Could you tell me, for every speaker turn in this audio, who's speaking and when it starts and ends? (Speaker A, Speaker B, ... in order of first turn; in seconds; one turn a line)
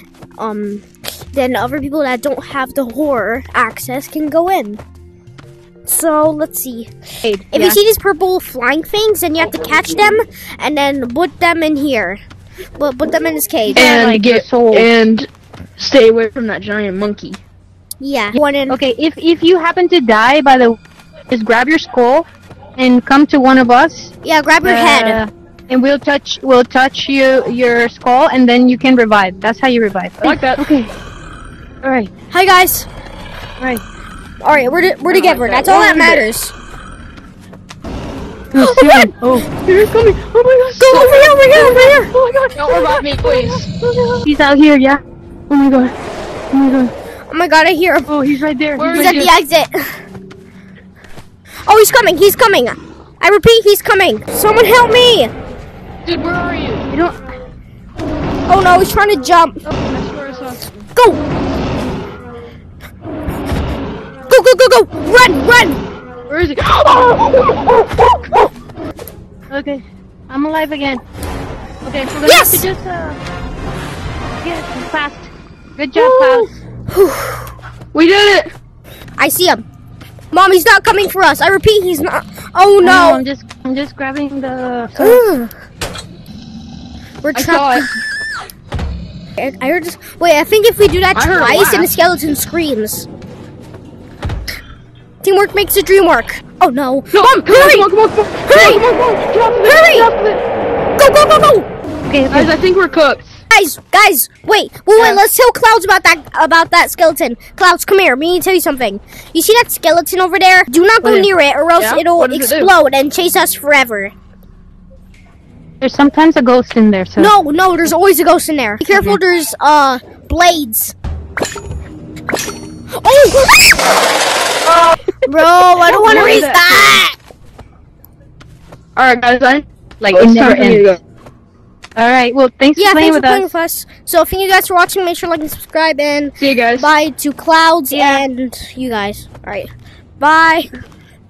Speaker A: 0.4-4.8
Speaker A: 5.9-6.9
Speaker B: 7.2-7.8
Speaker A: 7.5-12.2
Speaker A: 12.8-14.0
Speaker B: 13.6-14.9
Speaker C: 13.8-17.4
Speaker A: 18.0-18.8
Speaker B: 18.7-20.8
Speaker B: 21.3-24.1
Speaker A: 24.2-25.2
Speaker B: 24.6-30.9
Speaker C: 30.2-30.7
Speaker B: 31.8-32.1
Speaker A: 32.3-32.9
Speaker A: 34.4-36.5
Speaker C: 35.1-36.2
Speaker B: 38.5-39.5
Speaker C: 38.6-38.9
Speaker A: 38.7-39.1
Speaker C: 39.6-44.2
Speaker A: 40.8-42.1
Speaker B: 44.2-45.9
Speaker B: 46.5-46.9
Speaker A: 47.3-48.1
Speaker B: 48.1-49.3
Speaker C: 48.8-49.3
Speaker A: 48.9-50.0
Speaker A: 51.7-55.3
Speaker C: 56.0-56.9
Speaker B: 56.9-57.2
Speaker A: 58.5-59.6
Speaker C: 59.9-60.8
Speaker A: 61.0-61.2
Speaker A: 64.3-65.8
Speaker C: 66.3-68.5
Speaker B: 69.5-71.0
Speaker B: 71.8-73.2
Speaker A: 72.2-72.7
Speaker B: 74.4-76.5
Speaker C: 76.0-76.5
Speaker A: 76.9-77.5
Speaker C: 77.9-78.5
Speaker A: 79.2-79.6
Speaker A: 80.3-83.2
Speaker B: 82.8-85.3
Speaker A: 85.0-85.5
Speaker A: 87.2-87.9
Speaker C: 87.3-87.9
Speaker A: 89.4-93.1
Speaker C: 91.1-91.9
Speaker A: 95.2-97.9
Speaker C: 97.1-100.4
Speaker A: 98.5-98.8
Speaker A: 99.7-100.1
Speaker A: 101.0-101.7
Speaker B: 102.1-102.5
Speaker C: 102.3-103.4
Speaker A: 103.5-114.1
Speaker C: 105.0-105.2
Speaker B: 111.0-111.3
Speaker C: 111.8-112.7
Speaker B: 115.8-117.3
Speaker A: 117.2-120.9
Speaker B: 118.9-119.2
Speaker A: 123.0-123.9
Speaker C: 124.7-125.0
Speaker A: 125.2-127.2
Speaker C: 125.8-127.0
Speaker C: 129.0-131.0
Speaker B: 130.2-130.8
Speaker B: 132.0-133.5
Speaker A: 132.8-140.7
Speaker C: 136.4-136.9
Speaker B: 137.9-138.2